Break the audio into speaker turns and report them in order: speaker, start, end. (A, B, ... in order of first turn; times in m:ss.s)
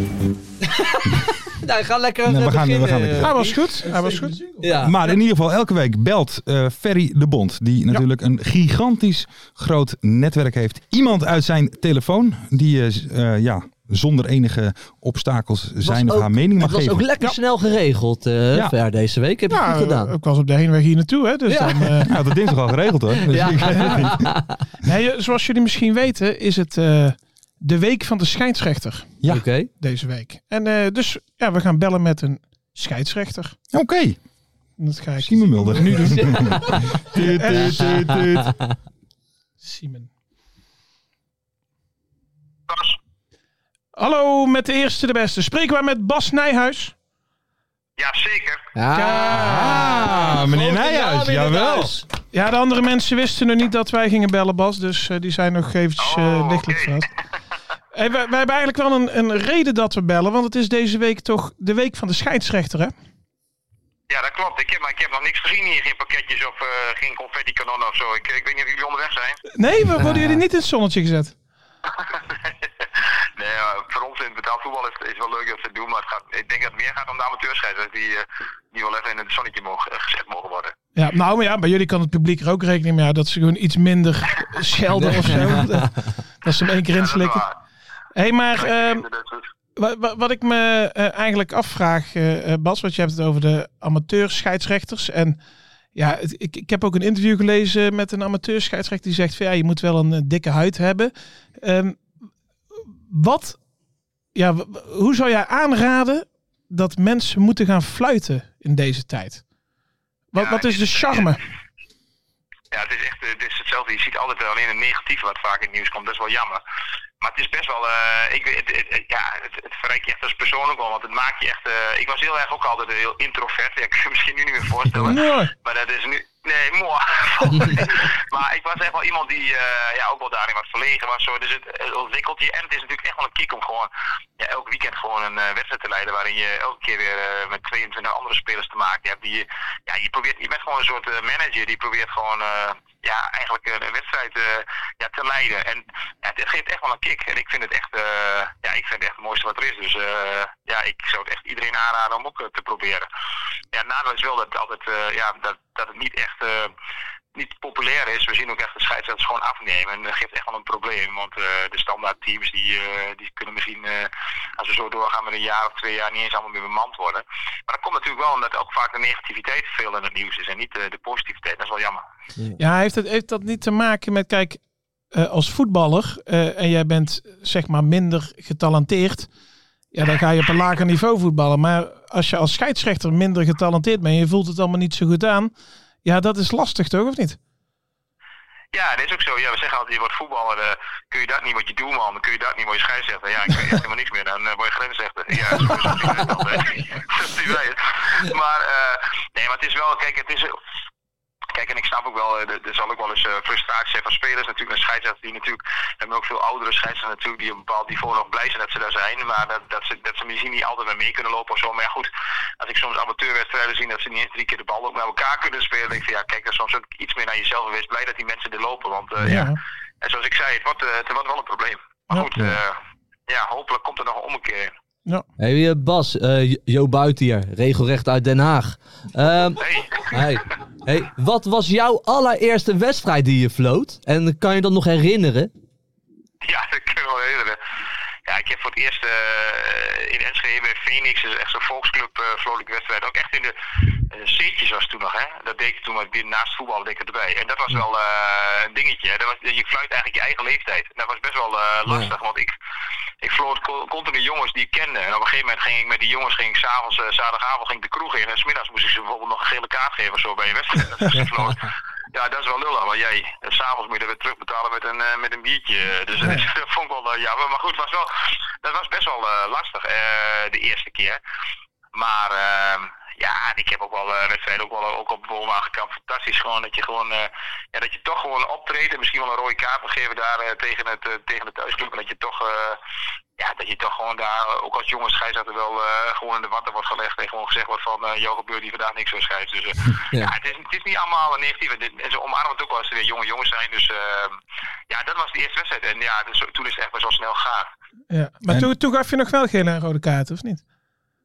0:00.6-0:05.0 A
0:02.3-0:03.3 B
0:03.2-0:04.5 C
0:04.8-0:17.0 B
0:15.8-0:20.1 A
0:19.5-0:22.1 C
0:21.5-0:22.1 A
0:22.0-0:24.3 B
0:23.2-0:24.6 A
0:23.6-0:24.1 C
0:24.8-0:29.2 C
0:29.3-0:29.7 A
0:29.7-0:33.6 C
0:33.7-0:34.2 B
0:34.8-0:37.9 C
0:35.2-0:38.6 B
0:36.1-0:38.7 A
0:39.6-0:40.1 C
0:42.7-0:43.0 D
0:44.0-0:46.9 C
0:48.0-0:48.6 D
0:48.8-0:52.0 A
0:48.9-0:50.0 C
0:49.2-0:52.0 B
0:52.3-0:57.1 C
0:56.0-0:57.0 D
0:57.9-1:02.9 C
1:04.1-1:09.4 D
1:09.6-1:11.3 C
1:10.0-1:10.4 A
1:12.0-1:20.7 D
1:21.0-1:27.5 C
1:25.0-1:26.0 A
1:26.9-1:27.5 D
1:28.2-1:29.0 C
1:28.6-1:29.4 D
1:29.8-1:35.4 C
1:36.0-1:42.0 C
1:43.1-1:43.6 C
1:44.4-1:49.4 C
1:50.3-1:51.4 C
1:50.4-1:51.4 D
1:52.7-1:56.6 D
1:57.2-2:33.1 D
2:05.0-2:05.5 C
2:33.7-2:36.7 D
2:37.4-2:52.0 D
2:52.6-2:54.6 C
2:55.1-2:59.3 C
2:59.9-3:05.5 C
3:06.0-3:07.4 C
3:08.7-3:20.6 D
3:21.5-3:44.7 D
3:39.2-3:39.6 C
3:45.4-3:55.5 A
3:49.6-3:50.2 D
3:56.4-3:57.6 D
3:58.3-4:03.6 D
4:04.1-4:12.5 D
4:11.9-4:12.1 A
4:13.2-4:28.1 D
4:26.2-4:26.5 C
4:28.6-4:31.2 D
4:32.0-4:42.8 D
4:43.4-4:54.4 D
4:54.9-4:57.7 D
4:58.1-5:00.6 C